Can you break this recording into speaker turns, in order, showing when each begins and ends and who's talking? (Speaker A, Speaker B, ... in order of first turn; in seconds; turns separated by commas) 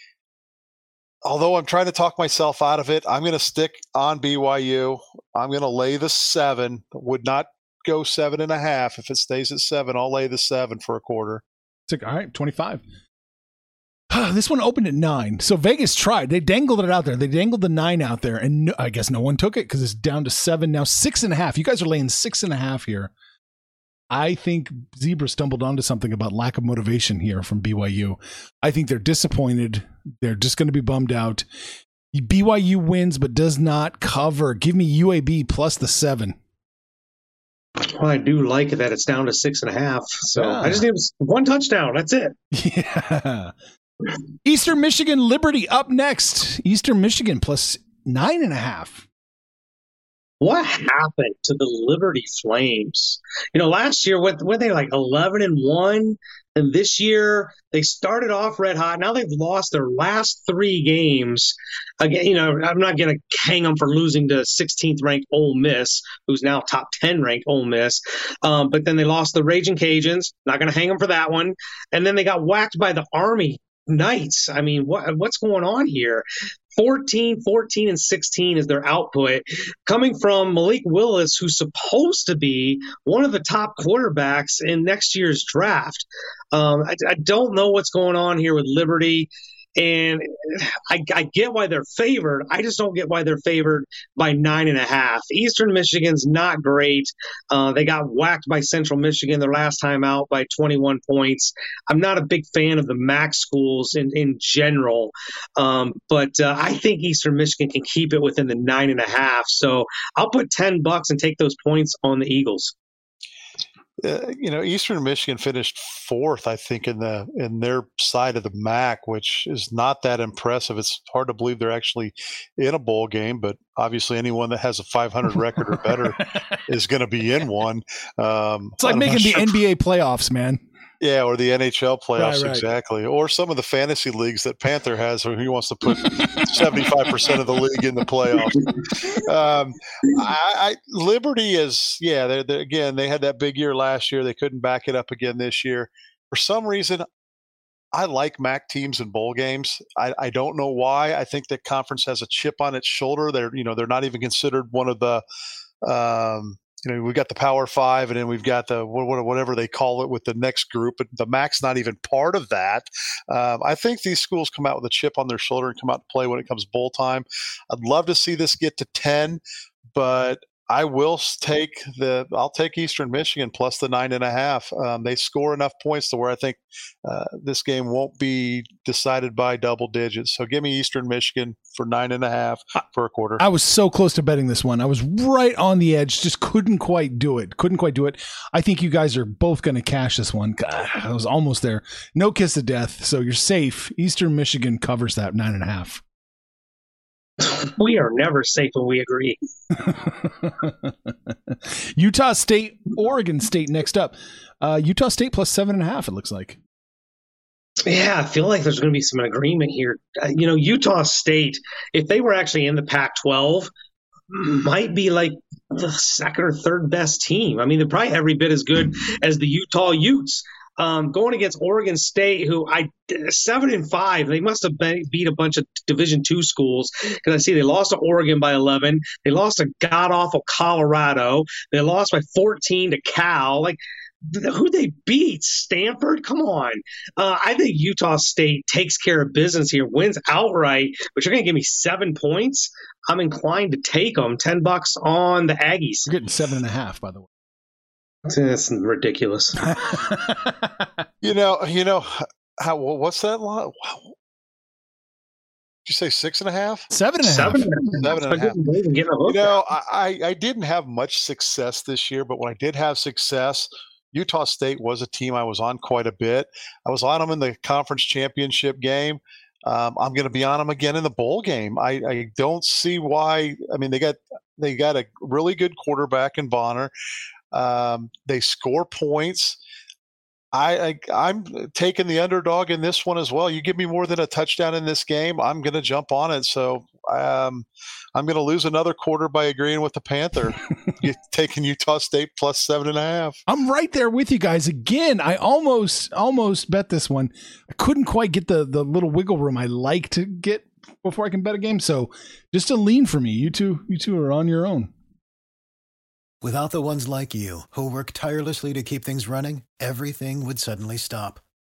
Speaker A: 1.2-11.4, Speaker B: 11.9-12.8, Speaker B: 14.1-23.1, Speaker B: 24.1-31.4, Speaker B: 32.1-36.4, Speaker C: 37.8-42.3, Speaker B: 40.4-40.9, Speaker B: 42.5-43.5, Speaker B: 44.4-49.0, Speaker C: 50.4-76.2, Speaker C: 76.8-112.7, Speaker A: 114.0-129.6, Speaker B: 126.1-126.6, Speaker B: 128.8-130.6, Speaker A: 131.0-147.1, Speaker B: 132.2-132.7, Speaker B: 136.0-136.8, Speaker A: 147.9-155.2, Speaker A: 155.8-169.4, Speaker A: 169.9-183.4, Speaker B: 183.4-196.0, Speaker C: 197.4-199.4, Speaker B: 199.7-206.6, Speaker C: 207.8-213.7, Speaker C: 214.3-246.1, Speaker B: 246.1-247.3, Speaker C: 248.3-249.6, Speaker B: 249.6-251.0, Speaker A: 251.2-254.1, Speaker A: 255.8-256.9, Speaker B: 256.9-257.7, Speaker C: 257.2-259.6, Speaker A: 257.8-258.6, Speaker A: 259.2-276.9, Speaker A: 277.5-279.6, Speaker A: 280.5-293.4, Speaker B: 293.5-304.9, Speaker D: 306.4-311.4